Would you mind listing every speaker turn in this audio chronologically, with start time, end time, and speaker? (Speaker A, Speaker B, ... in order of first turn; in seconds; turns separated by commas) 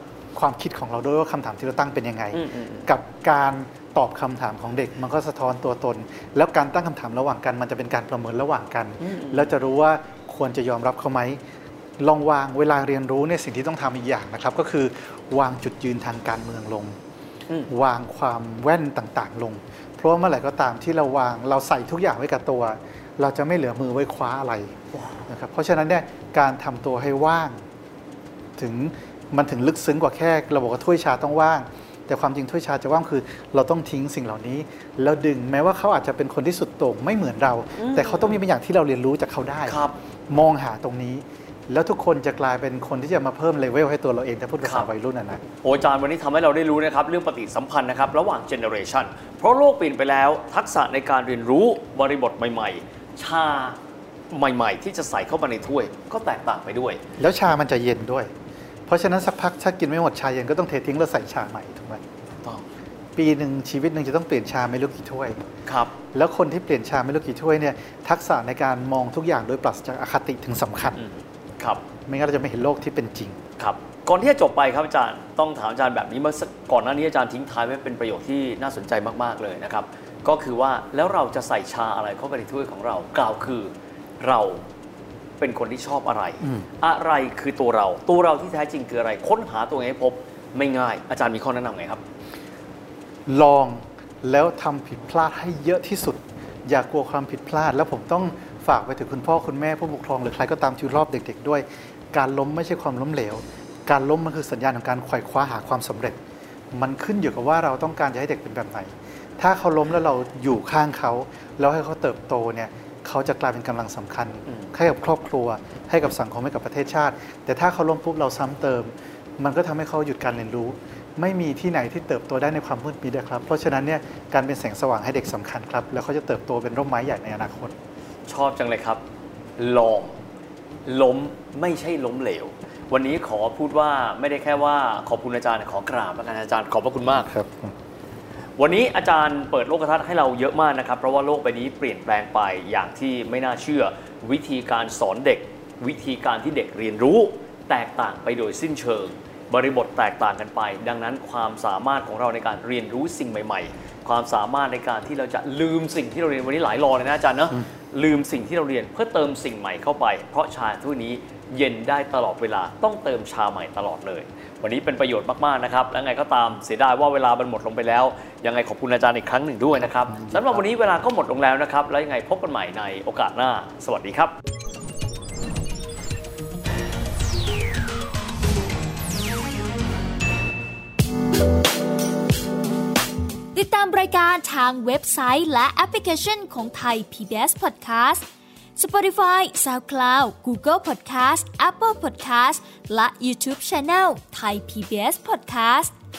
Speaker A: 0.3-11.4, Speaker B: 2.3-2.9, Speaker B: 9.0-9.5, Speaker A: 12.0-17.0, Speaker A: 17.7-24.7, Speaker B: 24.9-25.2, Speaker A: 25.3-27.6, Speaker A: 28.6-45.4, Speaker B: 37.8-38.4, Speaker B: 39.6-40.0, Speaker B: 44.6-44.9, Speaker B: 45.6-53.8, Speaker B: 54.3-57.0, Speaker A: 57.2-58.3, Speaker A: 58.9-62.0, Speaker A: 63.1-65.4, Speaker B: 65.7-66.0, Speaker A: 66.1-71.0, Speaker B: 71.0-71.8, Speaker A: 72.1-73.4, Speaker B: 73.6-84.6, Speaker B: 85.4-92.0, Speaker A: 86.4-86.7, Speaker A: 93.3-106.2, Speaker A: 106.7-127.7, Speaker B: 128.3-129.0, Speaker B: 129.6-130.2, Speaker B: 130.8-137.3, Speaker A: 137.2-137.7, Speaker B: 138.6-174.3, Speaker A: 170.2-170.6, Speaker C: 183.5-188.2, Speaker C: 188.8-195.9